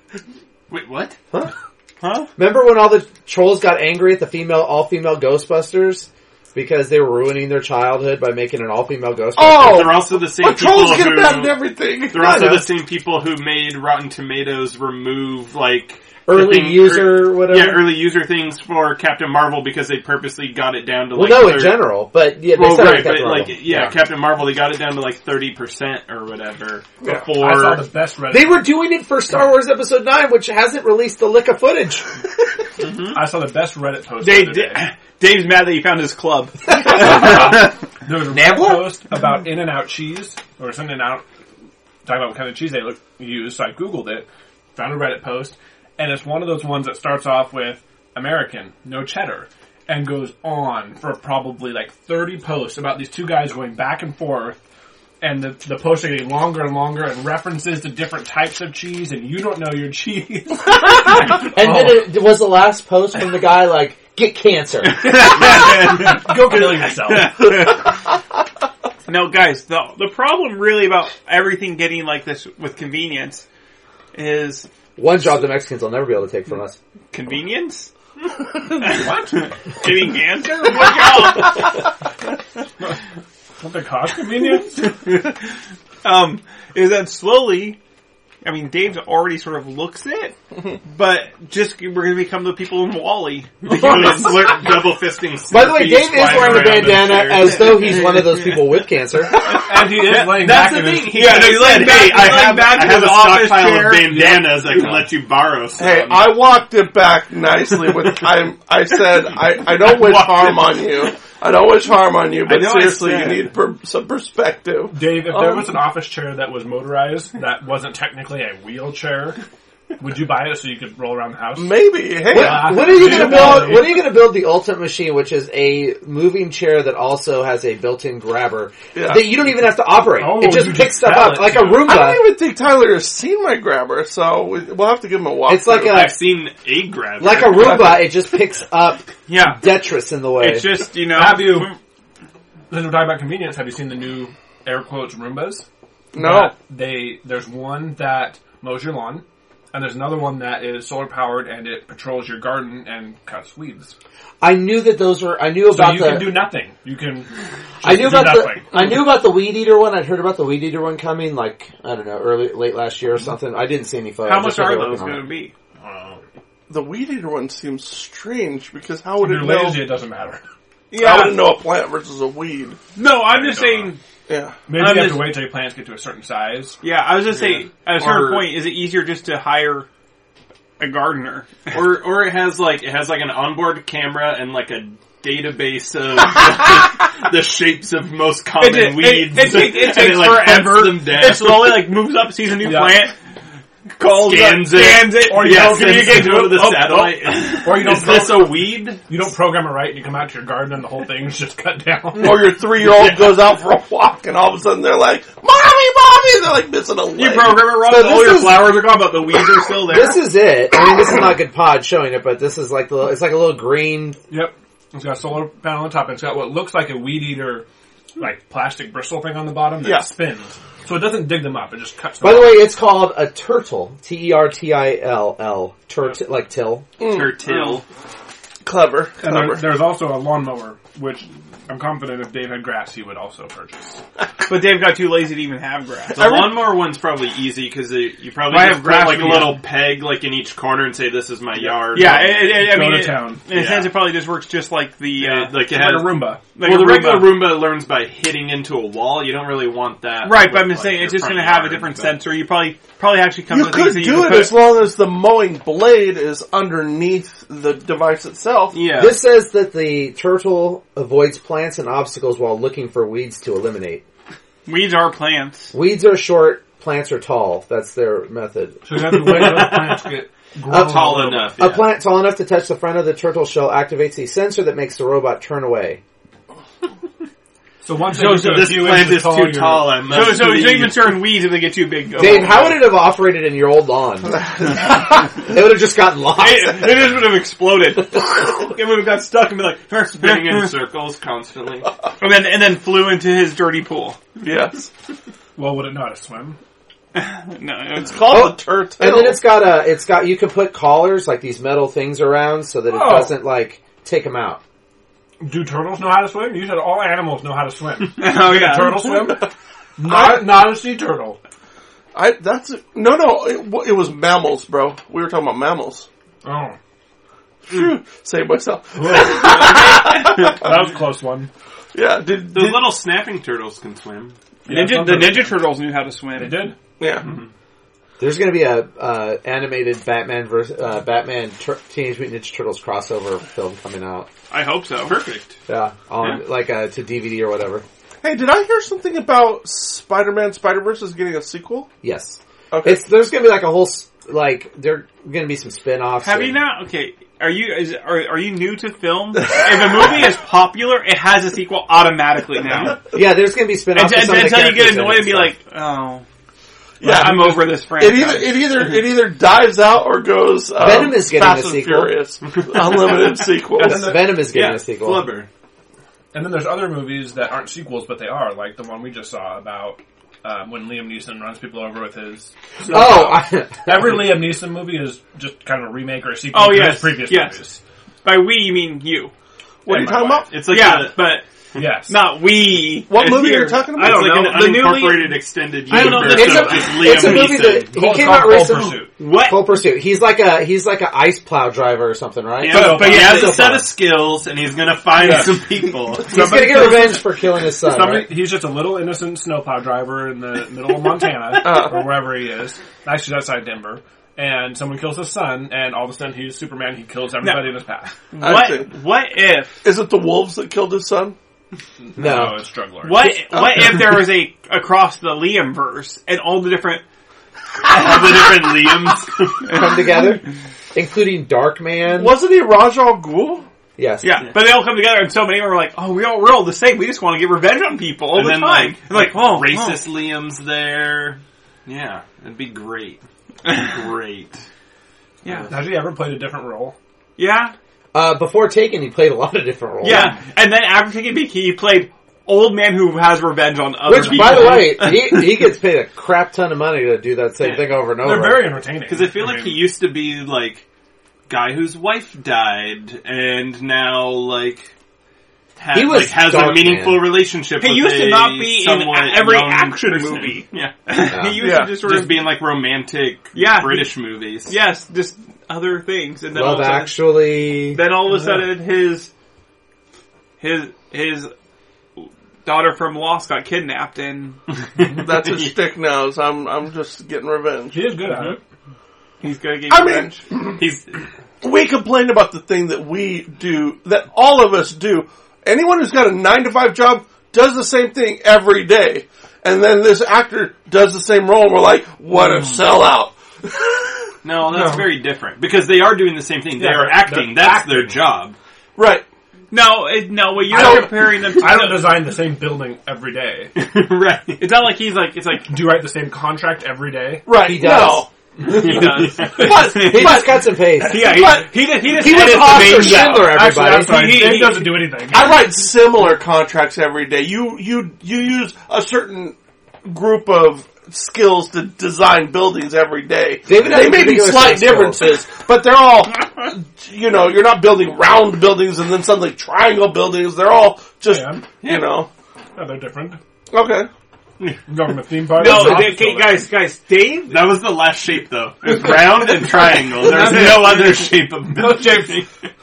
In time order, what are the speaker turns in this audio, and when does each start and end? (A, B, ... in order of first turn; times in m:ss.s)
0:00.7-0:01.2 A
0:02.0-0:02.3 B
0:02.4-0:09.9 C
0:09.4-0:12.2 D
0:09.6-0:21.9 A
0:12.1-0:12.7 C
0:16.2-0:18.0 C
0:21.1-0:24.0 C
0:22.5-0:27.9 A
0:27.3-0:28.7 E
0:28.3-0:32.1 C
0:32.8-0:33.1 B
0:33.1-0:34.9 E
0:34.2-0:37.7 B
0:36.9-0:41.2 E
0:38.3-0:38.9 C
0:42.0-0:54.6 E
0:55.2-1:02.1 E
1:01.3-1:05.4 C
1:05.0-1:07.9 B
1:05.1-1:07.4 E
1:09.0-1:13.4 B
1:14.1-1:14.7 B
1:15.0-1:16.8 C
1:17.1-1:17.9 B
1:18.8-1:21.8 B
1:18.8-1:19.5 E
1:23.6-1:24.9 E
1:24.8-1:25.4 B
1:26.0-1:27.8 B
1:28.4-1:34.5 B
1:33.6-1:38.3 A
1:35.5-1:39.3 C
1:37.8-1:38.0 B
1:39.4-1:44.2 B
1:39.6-1:41.3 E
1:40.2-1:46.4 A
1:44.0-1:45.0 E
1:45.8-1:55.7 D
1:49.8-1:50.8 B
1:52.4-1:53.4 A
1:54.9-1:59.4 E
2:00.0-2:04.0 E
2:01.5-2:03.8 D
2:02.3-2:12.3 C
2:08.9-2:09.3 D
2:10.1-2:12.0 E
2:11.8-2:15.9 D
2:15.4-2:16.2 C
2:15.7-2:18.1 A
2:17.2-2:20.8 C
2:19.3-2:19.7 B
2:20.4-2:21.8 B
2:21.0-2:21.7 E
2:22.7-2:33.9 E
2:26.1-2:26.5 D
2:34.4-2:36.4 C
2:35.7-2:37.3 E
2:37.8-2:38.8 E
2:37.8-2:45.3 C
2:44.2-2:45.5 B
2:45.8-2:46.2 E
2:46.7-2:50.0 D
2:49.2-2:50.4 E
2:50.9-2:51.5 B
2:50.9-2:52.8 D
2:52.9-2:54.0 B
2:53.3-2:53.9 E
2:54.3-2:54.6 D
2:54.7-2:56.8 E
2:54.7-2:55.4 B
2:56.8-2:59.9 B
2:57.3-2:58.5 A
3:00.8-3:01.7 B
3:01.7-3:11.9 A
3:08.6-3:13.1 B
3:12.6-3:13.1 E
3:14.0-3:17.5 B
3:14.0-3:19.0 A
3:15.2-3:16.5 E
3:17.6-3:22.8 E
3:22.1-3:27.8 D
3:27.1-3:30.2 B
3:27.8-3:29.0 C
3:29.9-3:34.2 C
3:34.3-3:37.6 E
3:38.2-3:42.7 E
3:39.8-3:40.1 D
3:42.2-3:46.9 C
3:47.0-3:47.6 D
3:47.0-3:47.8 A
3:48.6-3:49.6 D
3:49.2-3:54.0 E
3:54.5-3:56.8 B
3:56.1-4:02.6 A
3:58.5-3:59.6 B
4:01.6-4:03.5 E
4:01.9-4:05.6 B
4:03.5-4:04.0 A
4:05.2-4:12.2 A
4:05.6-4:06.4 E
4:06.5-4:07.5 B
4:10.2-4:14.7 B
4:13.5-4:18.8 D
4:18.7-4:19.2 A
4:18.9-4:24.0 C
4:24.6-4:25.7 B
4:25.7-4:29.6 C
4:28.8-4:31.5 E
4:29.3-4:30.0 A
4:30.7-4:36.0 C
4:30.7-4:31.9 A
4:37.8-4:40.3 E
4:38.1-4:41.3 A
4:40.0-4:42.9 B
4:42.2-4:47.0 C
4:44.3-4:44.8 D
4:46.3-4:50.8 B
4:50.1-4:51.9 A
4:52.2-4:54.2 B
4:54.4-4:54.9 D
4:55.6-4:56.6 E
4:57.1-4:58.3 B
4:58.0-4:59.4 D
4:58.3-5:04.6 C
5:02.9-5:03.4 E
5:05.4-5:11.4 E
5:08.2-5:09.2 B
5:09.2-5:09.5 D
5:10.0-5:10.7 D
5:12.1-5:16.1 D
5:16.4-5:16.8 E
5:17.7-5:20.8 D
5:19.0-5:21.5 E
5:21.9-5:22.9 D
5:22.5-5:24.4 A
5:24.6-5:25.6 E
5:24.7-5:26.7 B
5:26.3-5:26.8 E
5:27.0-5:27.3 D
5:27.2-5:27.5 A
5:28.2-5:34.3 C
5:34.5-5:35.2 B
5:35.0-5:35.6 A
5:35.7-5:37.8 C
5:38.2-5:41.9 D
5:42.0-5:46.6 C
5:42.7-5:43.0 D
5:46.2-5:53.0 B
5:49.7-5:50.0 D
5:52.6-5:52.9 D
5:53.1-5:55.5 C
5:53.9-5:56.2 B
5:57.0-6:04.2 D
5:57.0-5:57.4 E
5:57.0-5:58.7 B
6:00.8-6:02.2 C
6:03.8-6:05.3 C
6:03.8-6:04.2 E
6:04.2-6:05.5 A
6:06.3-6:17.8 E
6:12.8-6:14.3 C
6:16.5-6:17.6 B
6:18.2-6:19.3 B
6:19.8-6:20.6 D
6:19.9-6:20.5 E
6:20.4-6:21.3 A
6:20.6-6:21.4 B
6:21.7-6:22.2 E
6:22.1-6:25.4 B
6:23.1-6:24.4 D
6:23.9-6:27.9 A
6:25.9-6:29.1 E
6:25.9-6:33.9 C
6:29.1-6:29.7 B
6:32.6-6:36.3 A
6:32.6-6:33.8 E
6:35.2-6:35.6 E
6:36.2-6:48.1 E
6:36.3-6:38.3 C
6:41.6-6:42.2 D
6:47.4-6:47.7 B
6:48.3-6:49.8 B
6:48.4-6:48.9 D
6:49.8-6:51.4 D
6:52.1-6:53.4 E
6:52.2-6:52.6 C
6:53.0-6:57.0 B
6:53.5-6:54.1 D
6:57.8-6:59.8 A
6:59.7-7:02.4 C
7:02.1-7:03.7 D
7:04.0-7:04.3 C
7:04.2-7:10.0 B
7:08.3-7:14.6 A
7:15.4-7:15.7 B
7:15.7-7:17.0 E
7:17.4-7:17.7 B
7:18.1-7:20.4 C
7:20.0-7:25.6 B
7:20.0-7:20.4 A
7:24.0-7:28.8 C
7:28.2-7:29.9 E
7:29.1-7:30.8 A
7:31.5-7:34.9 A
7:35.8-7:41.0 A
7:35.9-7:37.3 C
7:37.8-7:42.5 B
7:41.3-7:41.6 C
7:41.6-7:42.0 D
7:41.8-7:44.7 A
7:43.5-7:44.1 B
7:44.7-7:47.1 B
7:46.5-7:48.0 C
7:47.9-7:49.3 B
7:48.2-7:48.7 E
7:50.6-7:51.5 B
7:52.2-7:54.6 B
7:55.0-7:58.1 D
7:55.0-7:55.7 A
7:57.9-7:58.6 E
7:59.4-8:00.4 B
7:59.9-8:00.8 D
8:00.8-8:01.1 A
8:01.6-8:14.3 D
8:14.4-8:18.6 A
8:14.7-8:15.1 E
8:16.8-8:18.2 E
8:19.0-8:19.2 D
8:19.7-8:22.1 B
8:20.7-8:21.5 D
8:20.7-8:23.7 E
8:23.8-8:24.7 A
8:24.6-8:25.8 B
8:25.7-8:27.5 E
8:27.4-8:28.3 D
8:27.5-8:28.2 C
8:28.6-8:30.5 B
8:28.6-8:29.1 E
8:28.7-8:29.8 A
8:29.3-8:33.1 D
8:29.9-8:34.5 C
8:31.0-8:33.6 B
8:32.4-8:35.7 E
8:34.2-8:34.9 B
8:35.2-8:52.3 D
8:43.6-8:45.4 C
8:51.3-8:51.6 E
8:51.8-8:52.2 A
8:52.8-8:53.4 E
8:53.7-8:54.1 D
8:54.9-8:56.7 E
8:55.5-8:57.8 B
8:57.5-9:02.5 A
9:00.2-9:01.2 E
9:00.3-9:01.0 B
9:01.8-9:02.4 E